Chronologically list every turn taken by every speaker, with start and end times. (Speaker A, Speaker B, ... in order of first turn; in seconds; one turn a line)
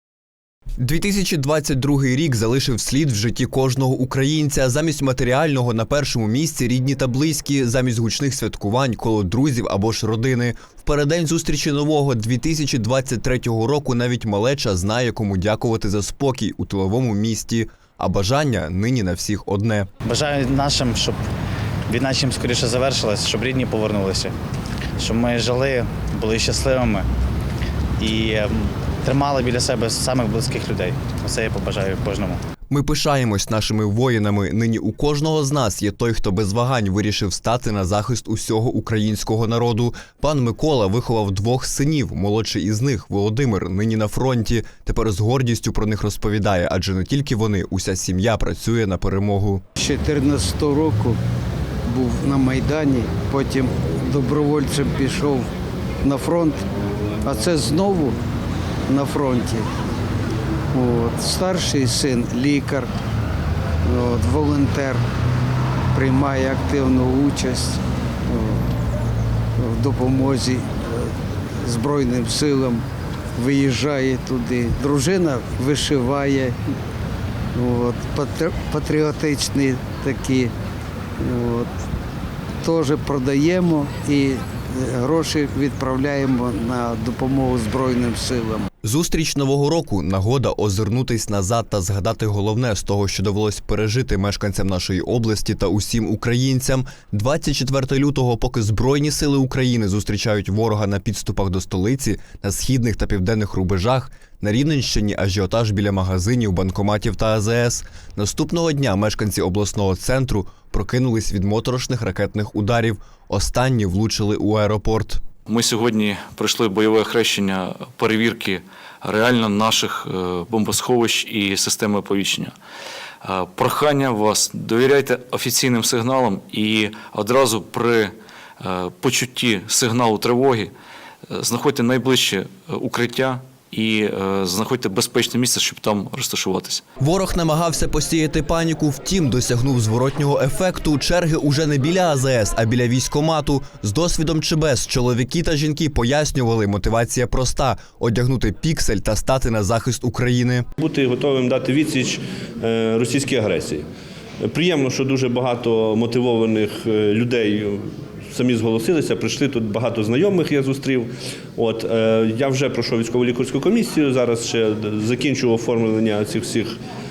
Speaker A: 0.8-19.9
Speaker B: 20.0-21.2
Speaker B: 21.9-24.3
Speaker B: 25.0-27.1
Speaker B: 28.0-32.4
Speaker A: 32.7-49.6
Speaker C: 49.8-51.2
Speaker C: 51.9-55.5
Speaker C: 56.0-56.6
Speaker C: 57.2-58.2
Speaker C: 58.9-59.7
Speaker C: 60.7-62.9
Speaker C: 63.8-65.0
Speaker C: 65.9-68.7
Speaker C: 69.6-72.8
Speaker C: 73.3-76.7
Speaker C: 77.5-80.5
Speaker C: 81.2-81.7
Speaker C: 82.6-88.7
Speaker A: 88.8-115.3
Speaker D: 115.5-122.5
Speaker D: 123.2-130.7
Speaker D: 131.3-136.8
Speaker A: 137.0-150.7
Speaker E: 150.8-153.8
Speaker E: 154.4-157.8
Speaker E: 158.3-166.7